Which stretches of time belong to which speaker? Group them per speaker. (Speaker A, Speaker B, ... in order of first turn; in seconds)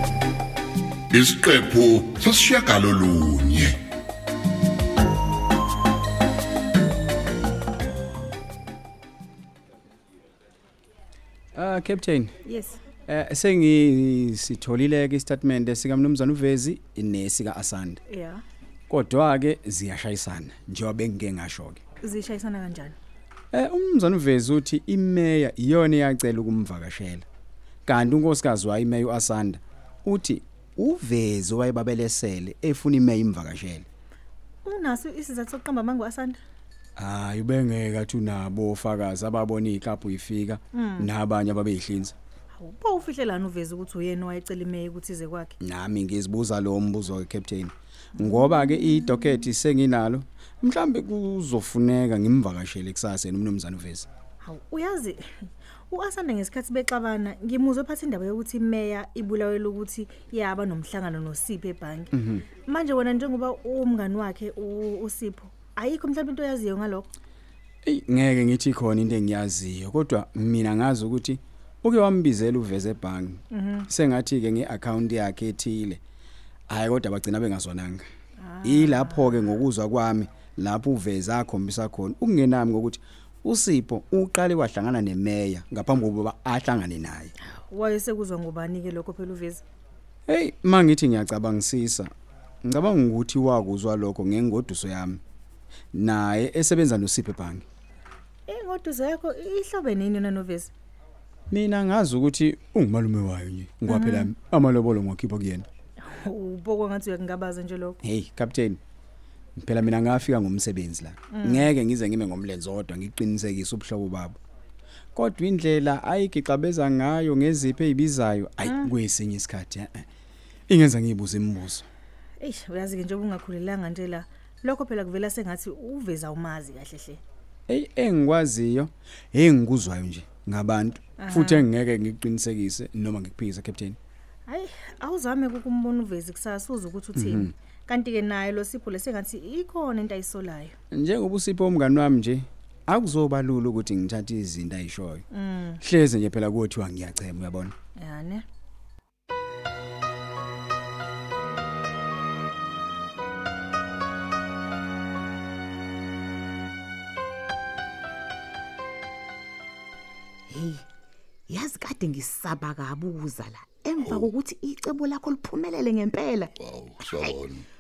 Speaker A: 1.1-3.8, 164.0-164.3, 166.6-167.7
Speaker B: 11.6-12.3, 13.1-18.0, 18.9-21.8, 23.5-27.2, 27.9-33.9, 37.0-42.1, 45.6-54.1, 62.1-62.5, 67.8-76.0, 76.7-78.0, 78.6-87.3, 90.3-92.1, 92.7-95.2, 95.9-97.7, 101.5-105.7, 108.0-108.8, 109.6-114.4, 115.2-120.0, 120.7-121.9, 127.7-134.0, 137.2-137.5, 140.9-145.3, 145.8-147.7
Speaker C: 12.5-12.8, 18.1-18.4, 22.0-23.0, 34.6-36.4, 40.7-41.1, 42.5-45.6, 48.2-49.3, 54.4-55.2, 55.9-67.1, 73.5-73.9, 78.4-79.4, 87.7-89.6, 98.5-100.7, 103.9-104.3, 106.0-108.0, 111.3-111.7, 118.6-118.9, 122.4-127.2, 131.2-131.7, 134.5-140.7, 145.3-145.8, 148.0-148.4
Speaker D: 160.5-160.8, 161.5-166.5, 167.0-167.3